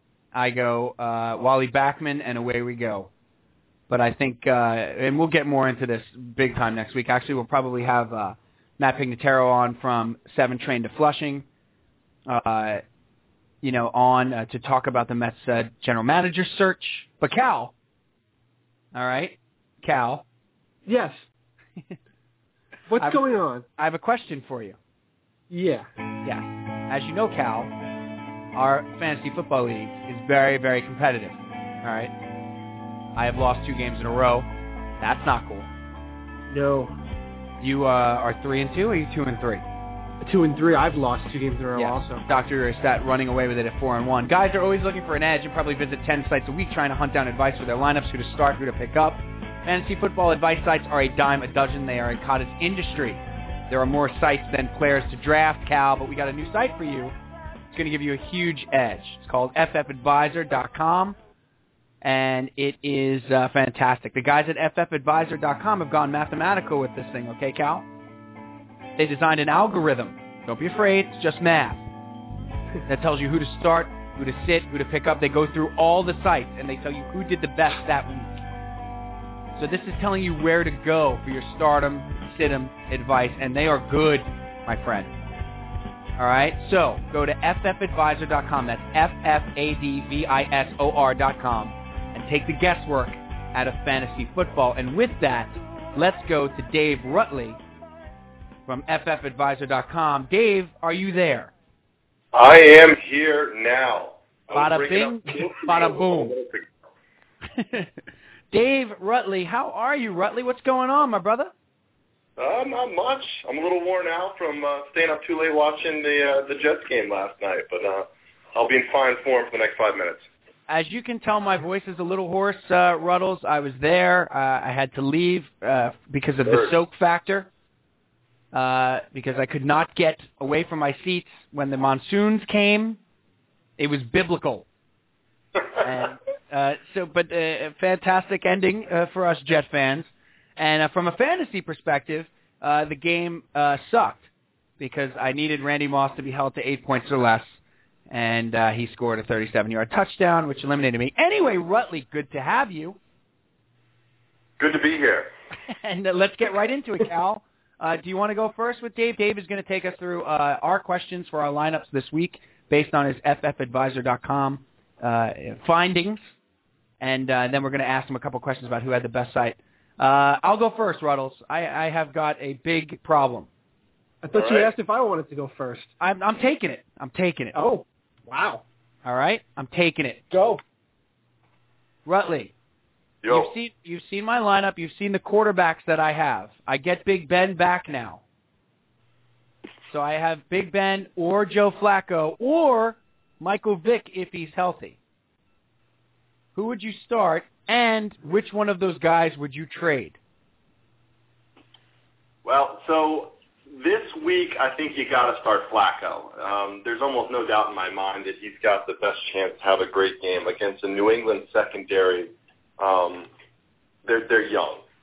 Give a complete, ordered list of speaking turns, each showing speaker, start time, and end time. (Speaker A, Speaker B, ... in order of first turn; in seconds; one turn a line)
Speaker A: 0.3-3.1
Speaker A: 3.9-11.4
Speaker A: 12.3-12.8
Speaker A: 13.6-17.7
Speaker A: 18.9-20.2
Speaker B: 20.9-21.2
Speaker B: 22.9-23.6
Speaker A: 23.0-23.2
Speaker A: 23.8-24.8
Speaker B: 25.5-25.9
Speaker A: 26.2-27.7
Speaker A: 28.6-32.1
Speaker A: 33.2-34.5
Speaker A: 35.0-35.7
Speaker B: 36.5-37.0
Speaker A: 37.6-39.6
Speaker B: 40.2-42.2
Speaker A: 41.8-57.1
Speaker A: 57.7-61.2
Speaker A: 62.0-67.9
Speaker A: 69.0-71.9
Speaker A: 72.9-78.4
Speaker A: 79.5-85.1
Speaker A: 86.2-97.6
Speaker A: 98.7-101.5
Speaker C: 102.3-106.7
Speaker A: 104.5-106.3
Speaker A: 107.6-107.9
Speaker A: 108.5-111.5
Speaker C: 112.4-120.3
Speaker A: 120.7-127.5
Speaker C: 126.5-126.7
Speaker A: 128.5-133.0
Speaker A: 133.8-134.7
Speaker A: 135.8-144.3
Speaker A: 144.8-147.6
Speaker A: 148.1-153.0
Speaker C: 154.6-155.3
Speaker A: 155.7-166.2
Speaker A: 167.0-173.5
Speaker B: 174.2-175.9
Speaker C: 174.3-174.7
Speaker A: 176.0-177.6
Speaker B: 177.5-178.6
Speaker A: 179.1-180.2
Speaker B: 180.3-180.6
Speaker A: 182.1-182.5
Speaker C: 183.2-183.5
Speaker A: 183.3-188.2
Speaker A: 189.9-195.0
Speaker A: 196.6-200.2
Speaker C: 202.4-213.3
Speaker C: 214.1-214.8